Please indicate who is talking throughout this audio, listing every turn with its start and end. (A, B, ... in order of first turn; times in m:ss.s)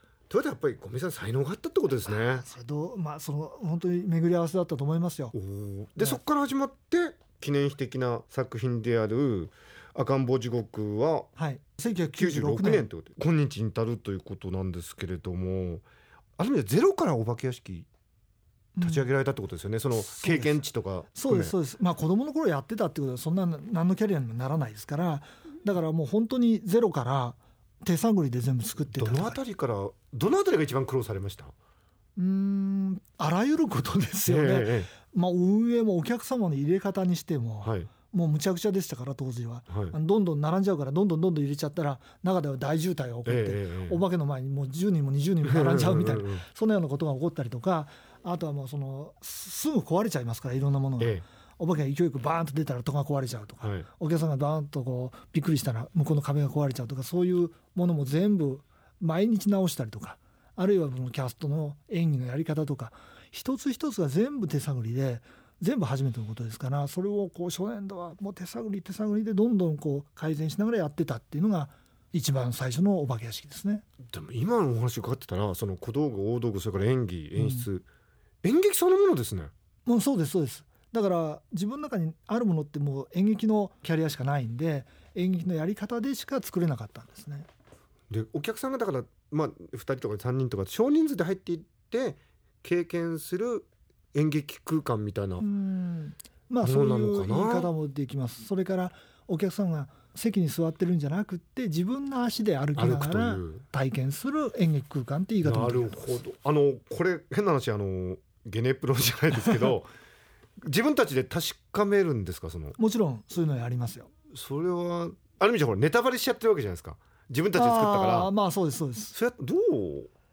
0:00.3-0:02.5 A
0:02.3-0:05.3 B
0:05.3-0:11.3 A
0:11.4-0:12.9 B
0:11.9-0:15.8 A
0:16.4-0:17.9 A
0:18.8-0:19.1 B
0:18.8-0:21.6 A
0:20.0-0:29.4 B
0:28.9-0:31.5 A
0:32.2-1:13.8 B
0:34.2-0:34.9 A
0:37.6-0:37.9 A
0:39.7-0:40.0 A
0:43.2-0:44.0 A
0:45.4-0:46.4 A
0:51.0-0:51.2 A
0:53.6-0:53.9 A
1:14.1-1:17.9 A
1:17.4-1:17.7 B
1:18.4-1:19.5 A
1:19.9-1:27.5 B
1:28.1-1:35.4 A
1:35.4-1:46.1 B
1:36.6-1:37.7 A
1:42.8-1:43.6 A
1:45.4-1:49.9 A
1:50.6-1:52.8 A
1:52.8-1:54.1 B
1:54.3-1:58.3 A
1:57.6-1:59.2 B
1:59.1-2:00.1 A